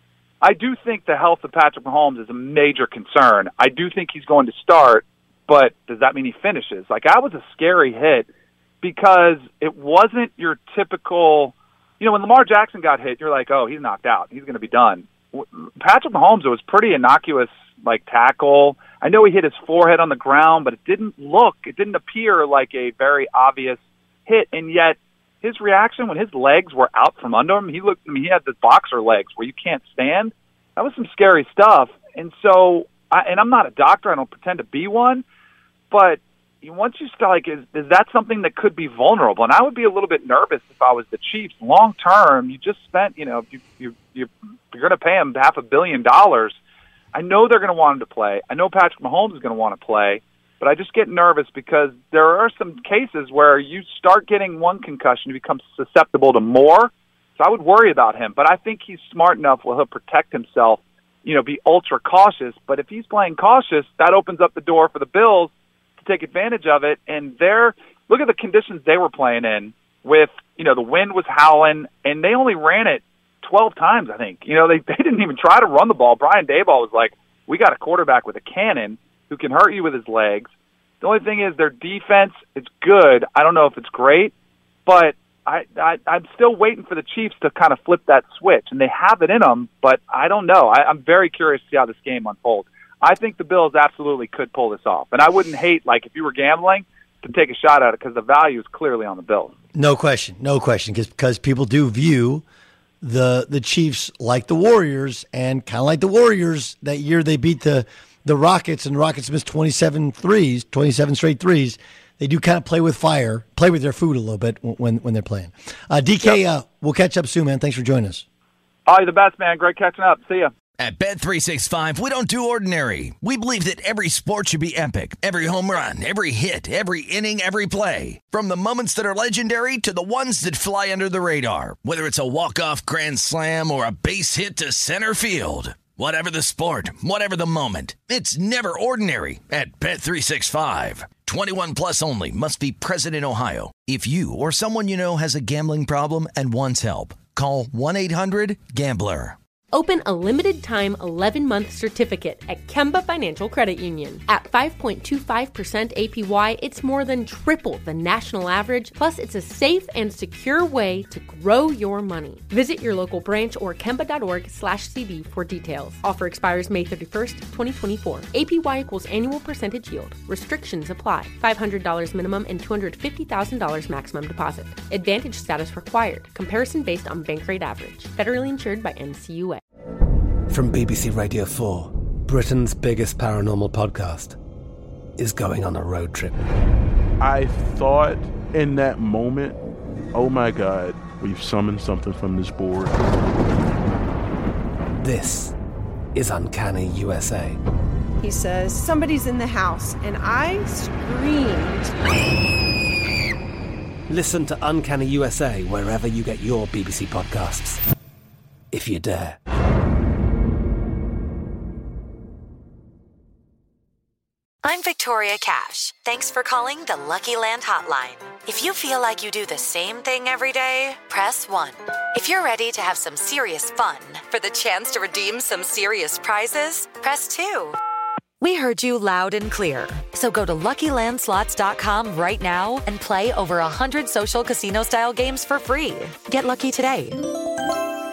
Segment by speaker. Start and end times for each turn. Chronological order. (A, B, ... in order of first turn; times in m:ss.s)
0:00.4-0:08.3 A
0:08.8-0:35.2 A
0:35.9-0:46.6 A
0:47.1-1:20.5 A
1:21.0-1:24.3 A
1:24.8-1:39.5 A
1:39.7-1:42.4 B
1:43.0-1:58.2 B
1:58.9-2:00.5 A
2:00.8-2:29.4 C
2:29.7-2:59.6 D
3:00.5-3:04.4 E
3:05.2-3:06.4 E
3:07.2-3:09.6 F
3:10.1-3:13.0 F
3:15.0-3:15.5 E
3:16.1-3:17.6 E
3:18.2-3:21.9 G
3:24.1-3:27.8 E
3:28.7-3:29.4 E
3:34.6-3:47.8 H
3:48.4-3:57.4 H